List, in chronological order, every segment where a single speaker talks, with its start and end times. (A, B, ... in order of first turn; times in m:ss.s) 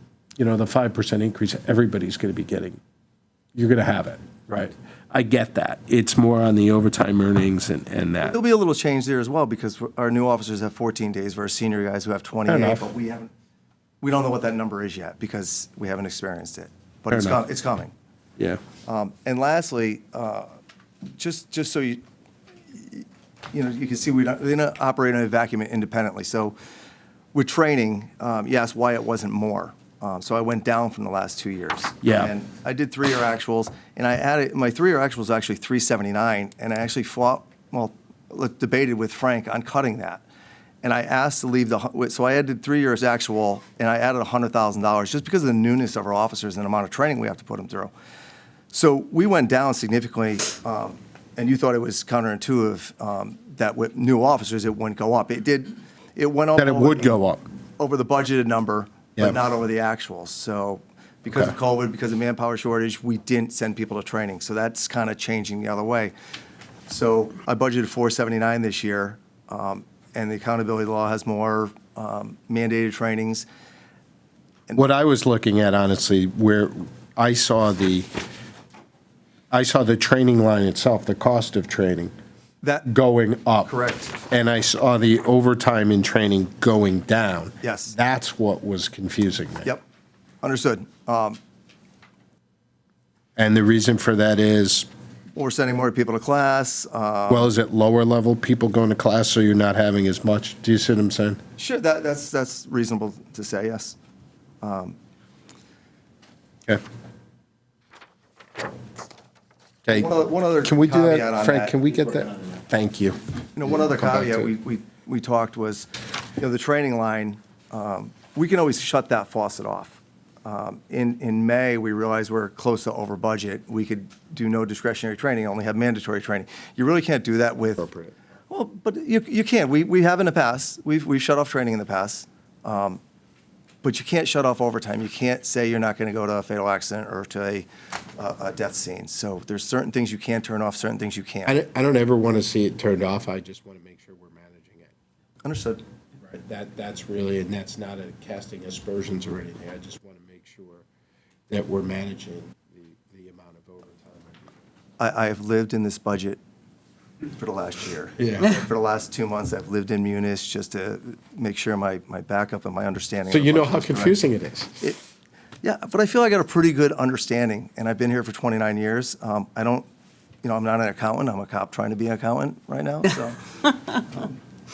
0:00.4-0:02.8 A
0:03.6-0:08.4 A
0:08.2-0:13.3 B
0:12.5-0:12.9 A
0:14.0-0:17.9 B
0:17.1-0:17.4 A
0:18.9-0:20.5 B
0:21.2-0:22.0 B
0:22.7-0:26.6 B
0:27.3-0:40.2 B
0:32.0-0:32.3 A
0:40.8-0:47.9 B
0:48.7-0:57.2 B
0:56.6-0:57.4 A
0:57.8-1:06.1 B
1:06.9-1:13.4 B
1:14.8-1:18.1 A
1:19.5-1:22.1 A
1:22.6-1:22.9 B
1:22.9-1:23.7 A
1:23.6-1:24.2 B
1:24.3-1:29.7 A
1:27.6-1:28.0 B
1:30.4-1:31.4 B
1:33.4-1:34.9 A
1:35.4-1:37.5 B
1:37.3-1:41.4 A
1:41.6-1:44.0 B
1:44.6-1:45.0 B
1:49.8-1:50.1 A
1:49.9-1:51.8 B
1:50.6-1:53.2 A
1:53.6-2:07.9 B
1:53.8-1:54.5 A
2:07.8-2:08.1 A
2:08.5-2:13.0 B
2:13.8-2:21.6 B
2:21.4-2:24.9 A
2:25.4-2:25.8 B
2:26.2-2:30.8 A
2:31.5-2:34.5 A
2:35.0-2:36.4 B
2:37.3-2:44.2 B
2:38.2-2:38.5 A
2:43.3-2:44.7 A
2:45.6-2:49.8 B
2:50.4-2:53.4 B
2:54.0-2:54.4 B